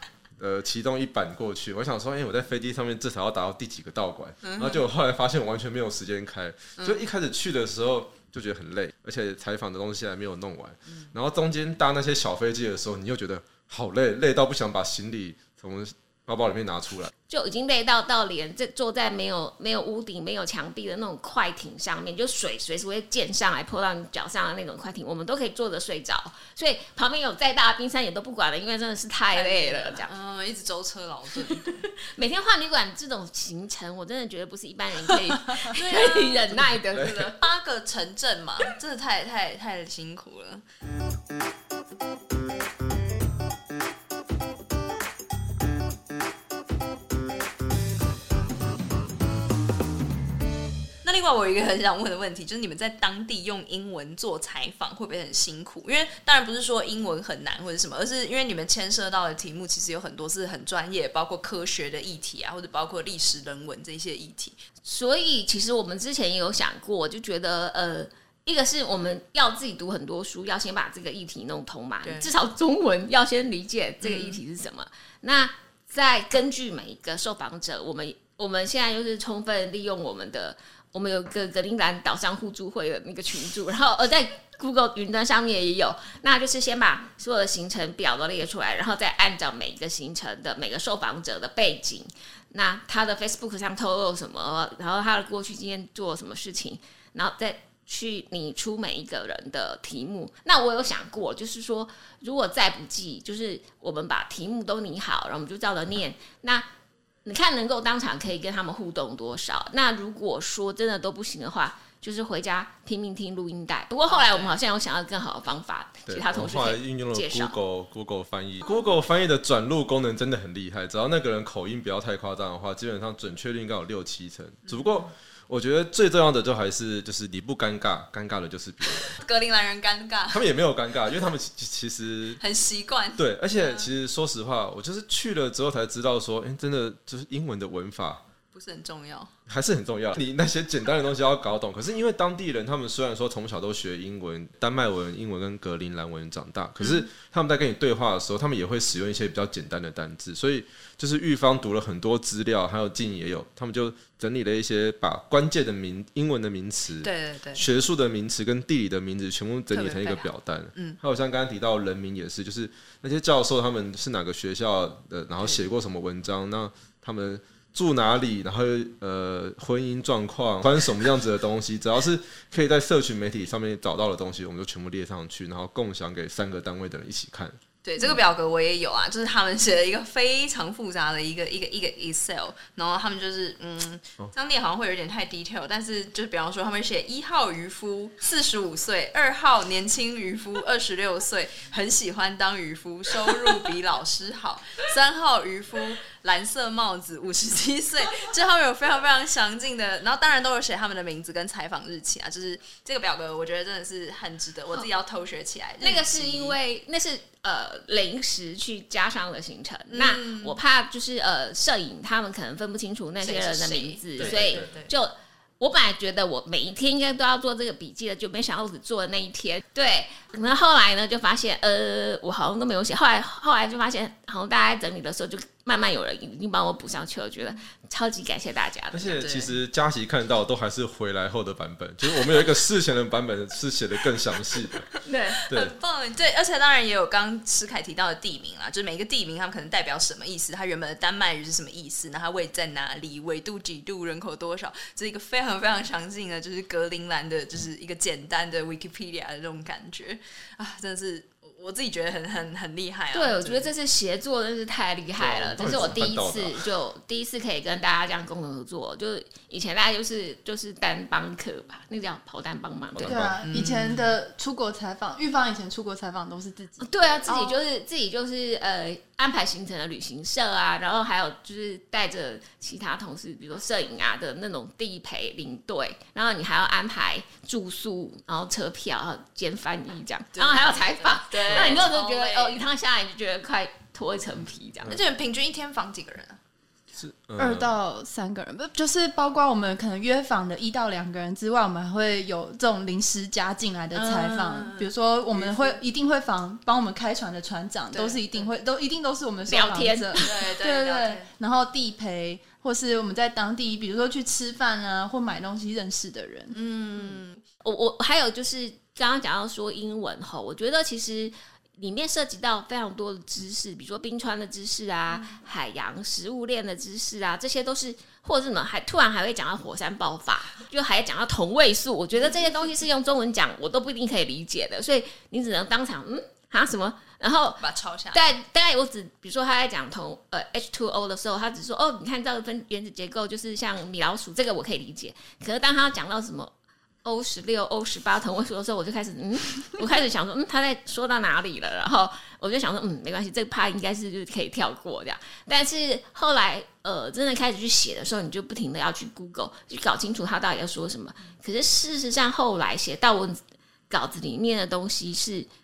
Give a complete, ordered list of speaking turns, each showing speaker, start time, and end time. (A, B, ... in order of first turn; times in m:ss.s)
0:00.4-0:17.1 A
0:04.4-0:04.8 B
0:06.8-0:07.0 B
0:17.3-0:30.1 C
0:29.3-0:31.9 B
0:31.4-0:37.4 C
0:35.3-0:36.6 B
0:36.7-0:37.3 A
0:37.3-0:40.6 B
0:51.0-1:04.6 B
1:04.8-1:46.7 C
1:12.0-1:12.3 B
1:14.0-1:14.4 B
1:47.2-1:57.6 C
1:54.1-1:54.6 B
1:56.1-2:09.2 A
2:04.7-2:05.0 B
2:09.2-2:10.4 B
2:10.3-2:12.4 A
2:12.4-2:13.9 B
2:13.2-2:18.2 A
2:18.5-2:19.3 B
2:19.5-2:57.6 A
2:37.0-2:37.6 B
2:39.7-2:41.0 B
2:57.8-3:26.6 B
3:25.8-3:49.2 C
3:29.9-3:30.6 B
3:33.2-3:34.9 B
3:34.2-3:34.7 A
3:48.9-3:54.9 A
3:49.2-3:49.5 B
3:55.0-3:55.4 C
3:55.3-4:13.7 B
4:13.1-4:23.2 C
4:15.2-4:16.6 A
4:15.6-4:15.9 B
4:23.0-4:23.7 A
4:23.1-4:27.2 D
4:23.4-4:24.1 B
4:26.8-4:45.0 C
4:27.3-4:27.6 B
4:40.4-4:42.6 B
4:41.5-4:41.8 A
4:44.9-4:46.4 B
4:47.0-4:47.8 A
4:47.4-5:06.5 D
4:53.9-4:55.8 B
4:57.9-4:58.5 B
4:59.5-5:00.3 C
5:00.2-5:01.3 B
5:06.5-5:07.4 B
5:07.6-5:36.5 C
5:15.1-5:15.4 B
5:27.6-5:28.3 B
5:37.0-5:53.4 C
5:53.9-5:55.5 C